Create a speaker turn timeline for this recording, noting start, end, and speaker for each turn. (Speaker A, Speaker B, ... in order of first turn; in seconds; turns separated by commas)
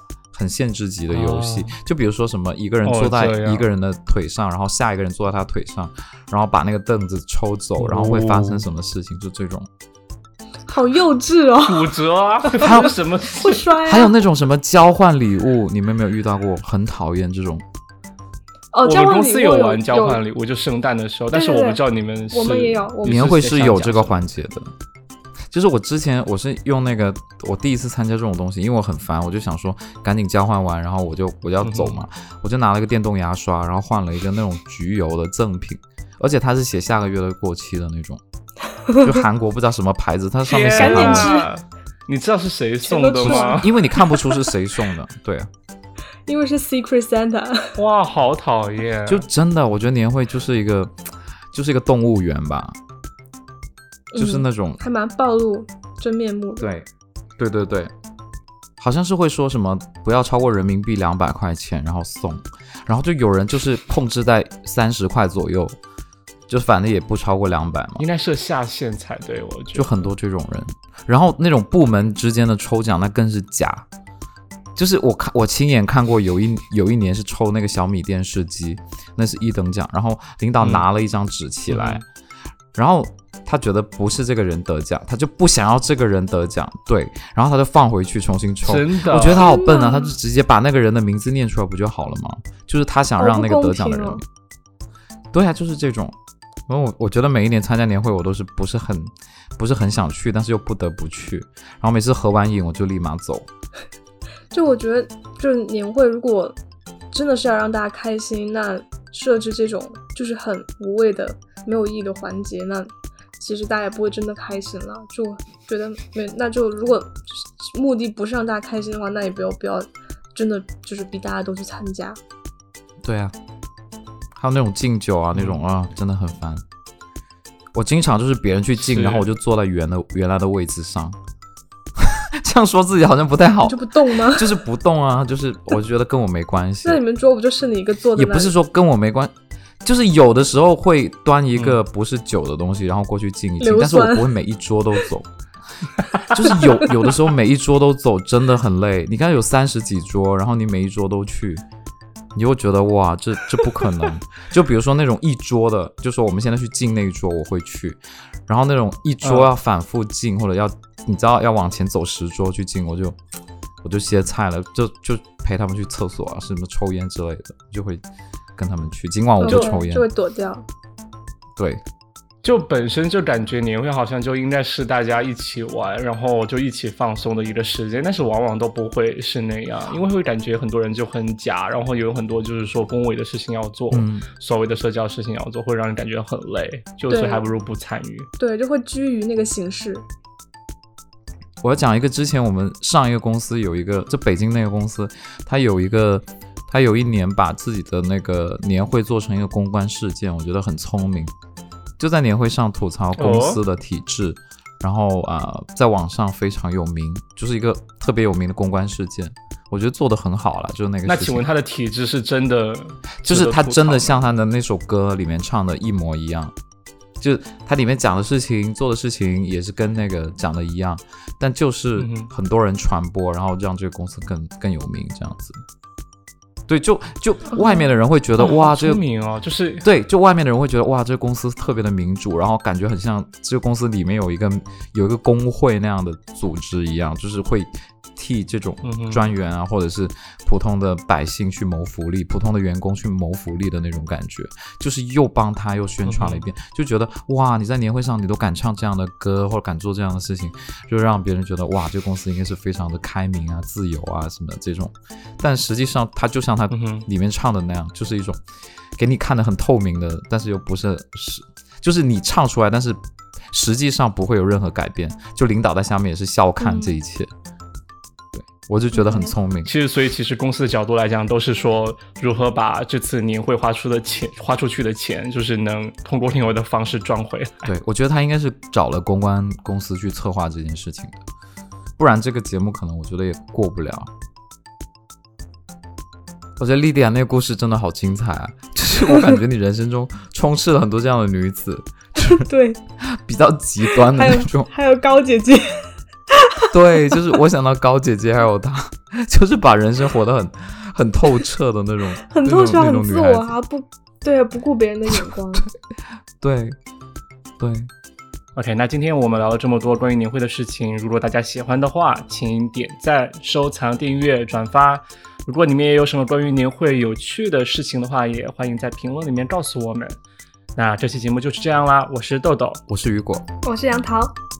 Speaker A: 0.3-9.7, Speaker B: 1.1-1.8, Speaker B: 2.9-3.7, Speaker B: 7.8-8.7, Speaker C: 10.7-12.0, Speaker B: 11.6-13.8, Speaker C: 12.6-14.1, Speaker A: 12.6-13.0, Speaker A: 13.8-17.6, Speaker C: 18.7-20.2, Speaker B: 18.9-24.2, Speaker C: 21.3-21.8, Speaker C: 22.3-23.3, Speaker A: 23.1-24.7, Speaker A: 25.5-38.2, Speaker B: 31.6-32.0, Speaker C: 38.9-39.2, Speaker A: 39.0-41.3, Speaker B: 40.5-43.8, Speaker C: 40.8-41.5, Speaker C: 42.8-44.2, Speaker A: 43.2-45.5, Speaker C: 46.3-47.8, Speaker B: 47.8-49.2, Speaker A: 49.1-50.9, Speaker A: 51.5-52.8, Speaker C: 54.1-56.7, Speaker A: 54.2-54.8, Speaker A: 56.6-57.9, Speaker A: 58.8-65.8, Speaker A: 66.5-68.0, Speaker B: 68.0-70.1, Speaker A: 69.7-73.9, Speaker A: 74.8-82.0, Speaker B: 80.6-80.9, Speaker B: 81.7-82.0, Speaker A: 82.7-94.2, Speaker B: 88.7-89.5, Speaker C: 89.3-90.1, Speaker C: 93.2-94.2, Speaker A: 95.3-96.2, Speaker A: 96.7-103.5, Speaker C: 104.5-106.5, Speaker C: 107.1-122.2, Speaker A: 123.0-123.3, Speaker A: 124.4-126.6, Speaker A: 127.7-131.2, Speaker B: 128.8-129.3, Speaker A: 132.0-137.0, Speaker C: 133.7-134.6, Speaker C: 136.8-138.6, Speaker A: 138.2-145.3, Speaker C: 143.6-144.3, Speaker A: 146.3-151.6, Speaker A: 152.3-163.2, Speaker B: 159.2-159.5, Speaker A: 163.8-168.0, Speaker A: 168.6-170.1, Speaker C: 169.4-170.7, Speaker A: 171.6-171.8, Speaker B: 172.4-188.3, Speaker A: 183.9-184.3, Speaker C: 187.1-187.4, Speaker C: 188.4-190.0, Speaker A: 191.6-201.3, Speaker A: 202.0-211.4, Speaker B: 203.2-203.6, Speaker B: 211.1-214.2, Speaker A: 213.2-216.5, Speaker A: 217.2-225.6, Speaker B: 222.0-222.3, Speaker A: 226.7-229.0, Speaker B: 228.4-229.9, Speaker A: 229.8-258.4, Speaker B: 238.8-239.3, Speaker B: 246.1-246.4, Speaker B: 256.7-257.1, Speaker A: 259.0-263.0, Speaker A: 263.5-267.3, Speaker C: 266.6-266.9, Speaker A: 268.4-269.7, Speaker C: 268.9-269.3, Speaker B: 269.7-277.7, Speaker A: 277.7-281.2, Speaker A: 282.0-284.1, Speaker A: 286.6-292.5, Speaker C: 292.2-292.8, Speaker A: 293.0-294.7, Speaker C: 293.9-296.7, Speaker A: 296.7-303.5, Speaker C: 302.2-305.7, Speaker A: 306.4-306.8, Speaker A: 307.6-307.9, Speaker B: 308.6-320.2, Speaker B: 320.8-322.8, Speaker A: 322.9-323.4, Speaker C: 323.6-324.4